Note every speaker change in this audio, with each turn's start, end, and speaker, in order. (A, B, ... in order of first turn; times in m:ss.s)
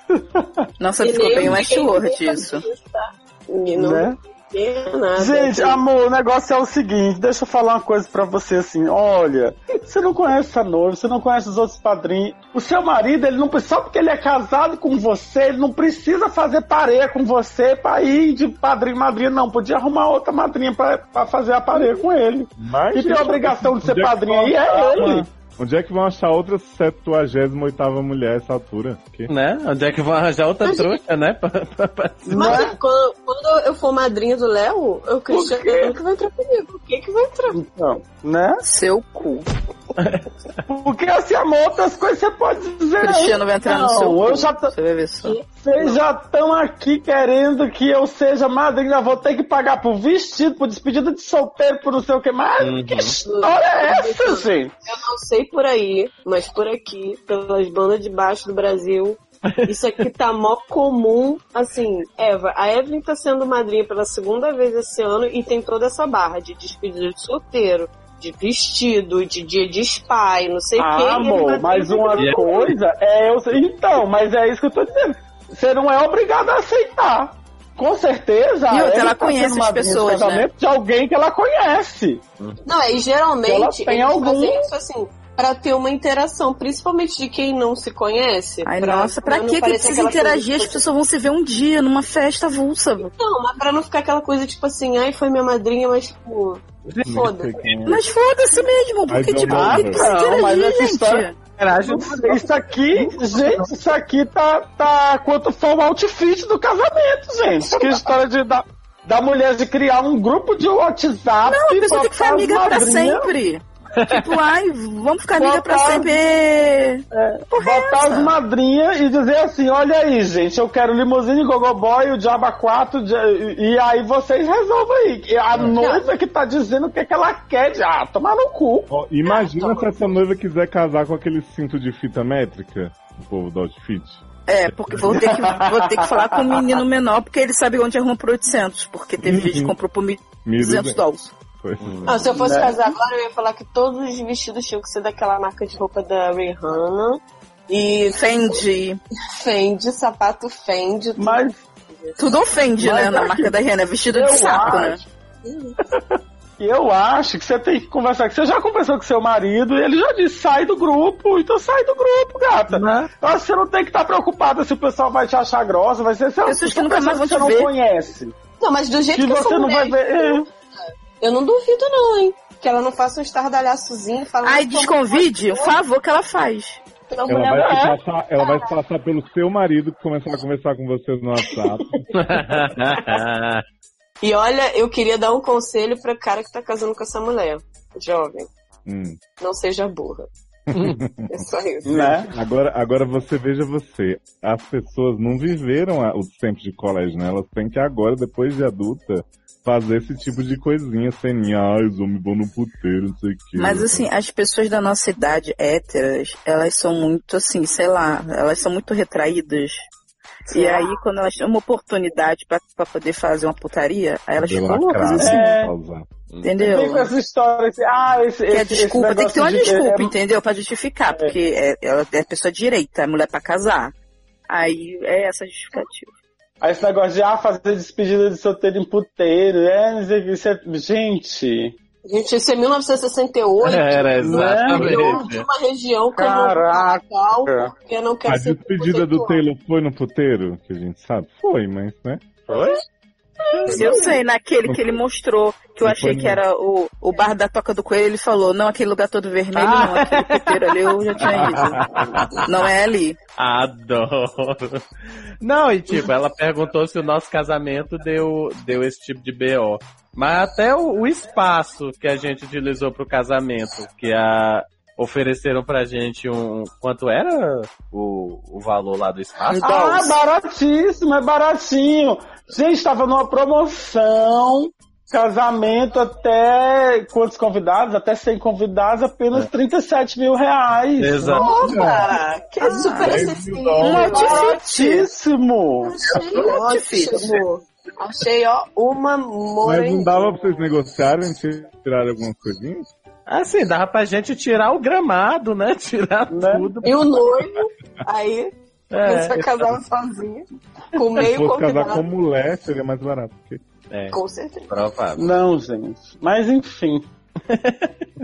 0:00.1-0:00.6 A
0:00.8-0:02.6 B
0:01.0-0:05.8 C
0:03.7-0:04.2 A
0:05.2-0:25.2 A
0:22.6-0:29.3 D
0:29.3-0:32.6 E
0:30.6-0:31.0 C
0:32.3-0:32.7 A
0:32.3-0:37.6 C
0:35.3-0:36.0 A
0:37.5-0:38.6 A
0:38.6-0:39.5 B
0:40.0-0:40.2 E
0:40.7-0:44.7 A
0:43.0-0:45.4 B
0:45.2-0:46.0 C
0:45.5-0:54.7 A
0:52.6-0:53.2 E
0:53.2-1:12.7 C
1:10.8-1:22.2 A
1:12.2-1:12.7 E
1:18.7-1:20.5 B
1:22.6-1:30.8 C
1:23.4-1:24.6 A
1:28.6-1:33.1 B
1:33.1-1:37.7 C
1:36.9-1:37.3 E
1:37.0-1:38.0 D
1:37.8-1:41.4 B
1:39.1-1:40.1 D
1:39.5-1:41.2 A
1:41.6-1:43.7 E
1:41.8-1:53.3 A
1:51.4-1:58.4 B
1:55.4-1:56.2 A
1:57.1-2:08.9 A
2:05.8-2:06.0 C
2:08.9-2:14.3 D
2:09.2-2:10.1 C
2:14.5-2:21.3 B
2:15.0-2:16.8 A
2:19.2-2:19.7 D
2:20.4-2:21.0 D
2:21.6-2:22.4 D
2:21.8-2:22.1 E
2:22.0-2:28.5 C
2:22.3-2:22.8 A
2:28.1-2:29.0 B
2:29.4-2:32.3 C
2:31.2-2:31.5 A
2:32.2-2:35.0 B
2:32.8-2:33.6 A
2:34.1-2:35.0 A
2:34.3-2:34.9 C
2:35.4-2:35.7 C
2:36.6-2:48.3 A
2:42.7-2:43.1 E
2:46.4-2:47.7 B
2:48.6-2:50.4 C
2:49.1-2:50.4 A
2:51.2-2:55.8 C
2:54.4-2:56.8 B
2:57.1-2:57.8 C
2:57.3-3:02.0 D
2:57.5-2:58.0 A
2:58.4-2:58.7 C
3:02.1-3:03.6 E
3:04.2-3:08.5 C
3:08.8-3:09.2 D
3:09.4-3:10.3 C
3:10.7-3:11.4 D
3:10.7-3:11.0 E
3:11.3-3:12.2 C
3:11.8-3:12.3 A
3:12.3-3:24.0 D
3:23.6-3:29.8 B
3:30.5-3:30.9 C
3:30.5-3:35.5 B
3:34.4-3:36.1 D
3:35.2-3:35.7 A
3:36.3-3:36.6 E
3:36.4-3:37.1 B
3:36.6-3:40.1 A
3:38.5-3:43.9 B
3:44.5-3:46.1 B
3:46.6-3:51.7 A
3:52.0-3:59.4 C
3:53.6-3:55.4 E
3:54.2-3:55.2 A
3:56.2-3:57.7 A
3:58.2-4:02.3 D
4:03.6-4:04.1 C
4:03.7-4:11.8 B
4:04.6-4:05.0 D
4:05.8-4:06.4 D
4:09.5-4:12.4 E
4:12.4-4:13.2 B
4:13.4-4:14.8 E
4:15.4-4:29.6 E
4:29.5-4:30.1 B
4:29.6-4:41.5 A
4:41.0-4:41.4 E
4:41.3-4:45.0 C
4:41.5-4:42.1 D
4:42.6-4:44.6 B
4:43.0-4:44.3 D
4:44.0-4:46.0 A
4:45.9-4:50.4 C
4:46.1-4:47.4 B
4:49.6-4:52.9 D
4:53.3-4:57.0 E
4:56.3-4:56.7 A
4:56.8-5:02.0 C
4:58.9-4:59.5 E
5:01.2-5:03.6 D
5:03.9-5:04.2 E
5:04.1-5:04.7 C
5:04.7-5:05.3 E
5:05.2-5:07.0 A
5:07.5-5:08.1 E